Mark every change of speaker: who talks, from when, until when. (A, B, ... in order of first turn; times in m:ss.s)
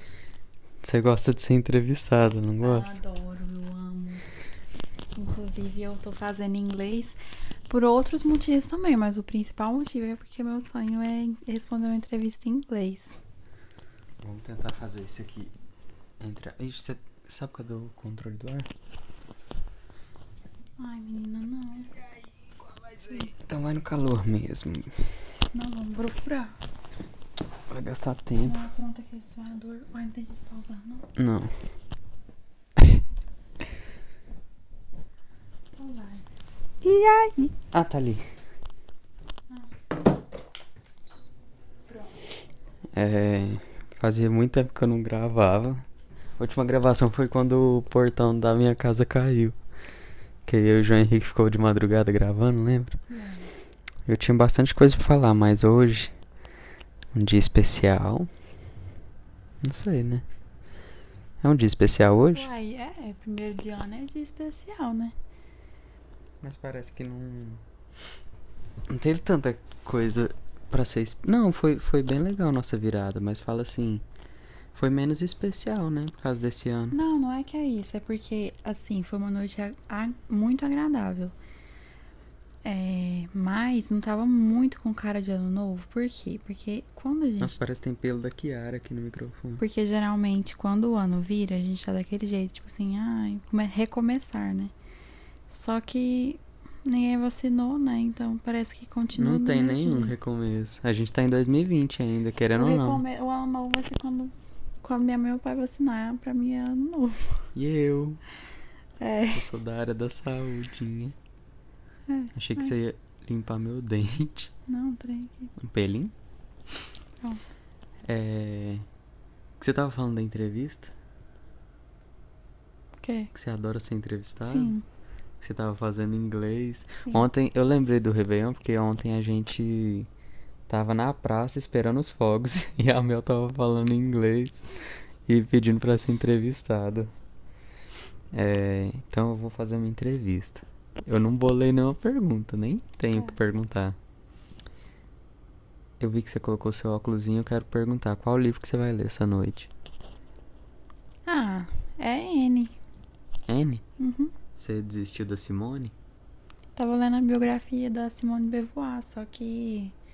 0:00.8-0:03.0 A
0:02.6-0:04.2 B
0:05.2-0:07.2 B
0:07.7-0:13.2 B
0:14.2-0:15.5 A
0:16.2-0:18.7 A
0:20.8-0:22.0 B
0:23.0-0:25.0 A
0:25.5-0:26.6 B
0:27.7-0:28.6 A
0:28.4-0:31.1 B
0:31.2-0:31.5 A
0:35.8-0:36.2 B
0:36.8-0:37.4 B
0:37.4-0:38.3 A
0:43.0-0:45.8 A
0:46.4-0:49.6 A
0:50.4-0:53.0 A
0:53.1-0:53.5 B
0:54.1-0:56.1 A
0:57.1-0:58.3 A
0:59.6-1:00.2 A
1:01.4-1:02.5 A
1:02.3-1:05.2 B
1:06.4-1:07.6 A
1:08.9-1:14.0 A
1:14.7-1:17.0 A
1:16.9-1:21.3 B
1:22.6-1:27.6 B
1:27.4-1:29.6 A
1:29.6-1:34.7 B
1:35.5-1:40.2 B
1:39.2-1:43.0 A
1:42.5-1:47.5 B
1:47.6-1:48.2 A
1:49.0-1:49.5 B
1:49.3-1:51.2 A
1:52.1-1:52.7 B
1:52.4-1:54.5 A
1:54.7-1:55.5 B
1:55.6-1:56.1 A
1:58.1-1:58.8 A
1:59.6-2:00.9 A
2:03.0-2:03.3 B
2:03.3-2:04.8 A
2:04.4-2:04.8 B
2:05.4-2:10.1 A
2:10.7-2:14.7 A
2:15.3-2:17.1 A
2:18.3-2:24.0 A
2:26.0-2:29.7 A
2:31.3-2:32.8 B
2:33.5-2:33.8 A
2:34.0-2:34.3 B
2:34.5-2:35.9 A
2:36.8-2:39.9 B